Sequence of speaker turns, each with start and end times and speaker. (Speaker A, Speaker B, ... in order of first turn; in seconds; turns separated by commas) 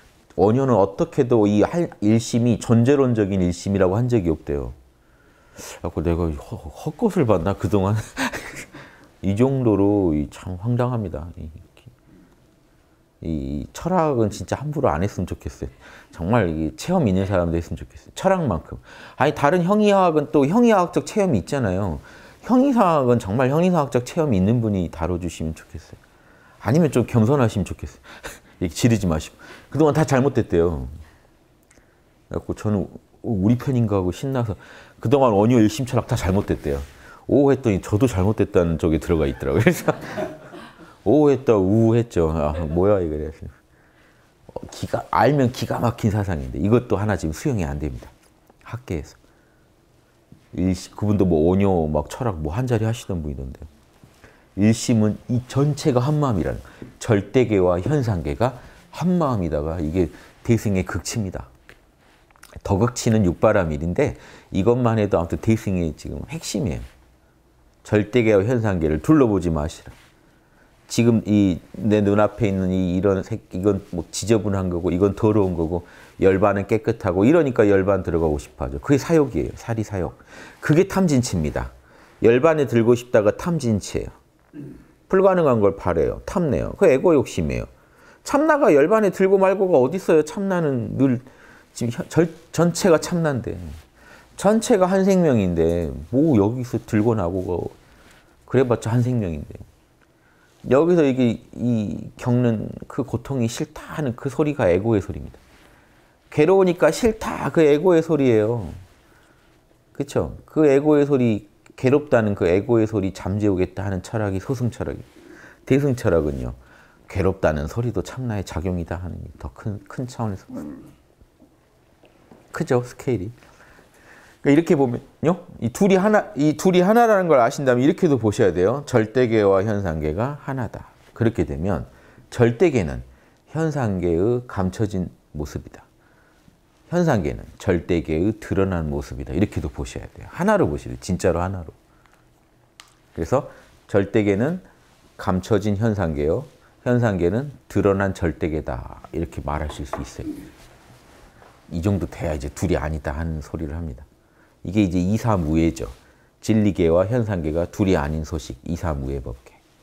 Speaker A: 0.4-4.8, Speaker A: 5.6-11.9, Speaker A: 13.2-26.0, Speaker A: 26.6-30.9, Speaker A: 32.3-40.4, Speaker A: 41.0-43.5, Speaker A: 44.5-48.1, Speaker A: 48.6-49.2, Speaker A: 50.5-53.7, Speaker A: 54.6-61.5, Speaker A: 62.6-66.9, Speaker A: 67.8-70.0, Speaker A: 70.9-84.2, Speaker A: 85.1-87.7, Speaker A: 88.2-93.8, Speaker A: 94.4-97.8, Speaker A: 98.5-99.6, Speaker A: 100.6-105.4, Speaker A: 106.3-108.8, Speaker A: 110.0-115.1, Speaker A: 115.7-116.6, Speaker A: 117.1-120.8, Speaker A: 122.5-123.3, Speaker A: 124.4-135.9, Speaker A: 136.9-141.8, Speaker A: 143.1-144.6, Speaker A: 145.2-150.4, Speaker A: 151.7-154.1, Speaker A: 154.6-159.6